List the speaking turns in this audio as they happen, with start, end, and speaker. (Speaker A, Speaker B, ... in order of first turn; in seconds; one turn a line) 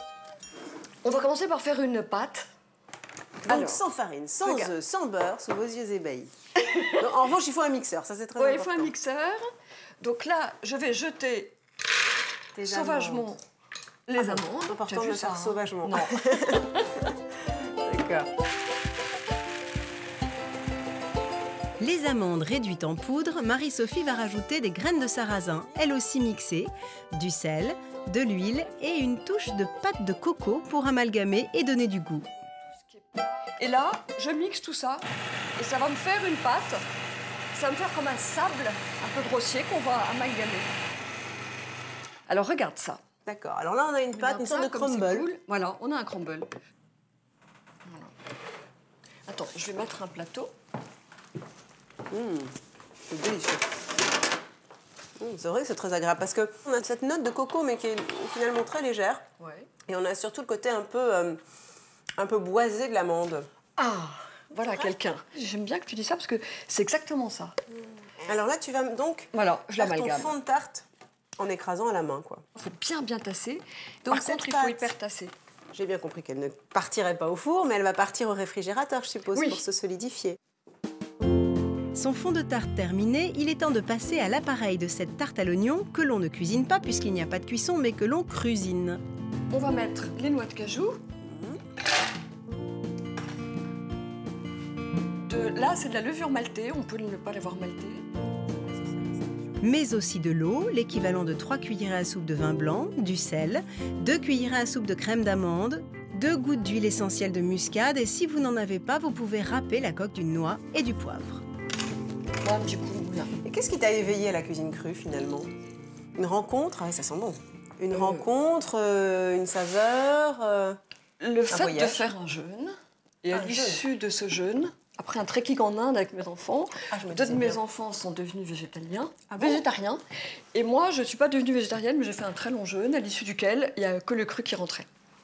Speaker A: 1.0-2.5
Speaker B: 3.4-6.3
Speaker A: 3.5-3.8
Speaker A: 4.4-4.7
Speaker A: 6.7-7.0
Speaker B: 7.0-8.9
Speaker A: 8.4-9.5
Speaker A: 10.0-11.5
Speaker B: 12.5-13.3
Speaker A: 12.6-13.4
Speaker A: 14.1-16.9
Speaker B: 14.2-18.3
Speaker C: 21.8-32.3
Speaker A: 32.6-36.8
Speaker A: 37.5-40.7
Speaker A: 42.3-43.0
Speaker B: 43.2-45.3
Speaker A: 44.1-46.5
Speaker A: 47.8-48.1
Speaker A: 49.3-50.5
Speaker B: 52.1-52.5
Speaker B: 53.1-53.7
Speaker B: 55.2-59.2
Speaker A: 59.4-59.7
Speaker B: 59.9-61.4
Speaker B: 62.2-63.5
Speaker A: 63.8-67.5
Speaker B: 64.6-64.9
Speaker B: 68.2-70.8
Speaker A: 69.3-70.3
Speaker B: 71.4-72.5
Speaker A: 72.6-75.3
Speaker B: 74.1-74.9
Speaker B: 75.7-80.4
Speaker A: 79.3-79.6
Speaker C: 81.9-89.0
Speaker A: 89.5-91.0
Speaker B: 91.2-91.6
Speaker A: 95.3-98.1
Speaker B: 98.5-99.6
Speaker C: 99.6-111.4
Speaker A: 112.4-113.3
Speaker B: 113.4-115.5
Speaker B: 116.2-120.8
Speaker A: 117.9-118.2
Speaker A: 121.2-130.0
Speaker B: 121.5-122.0
Speaker B: 123.3-123.8
Speaker B: 126.9-127.6
Speaker B: 129.3-129.6
Speaker A: 130.5-134.9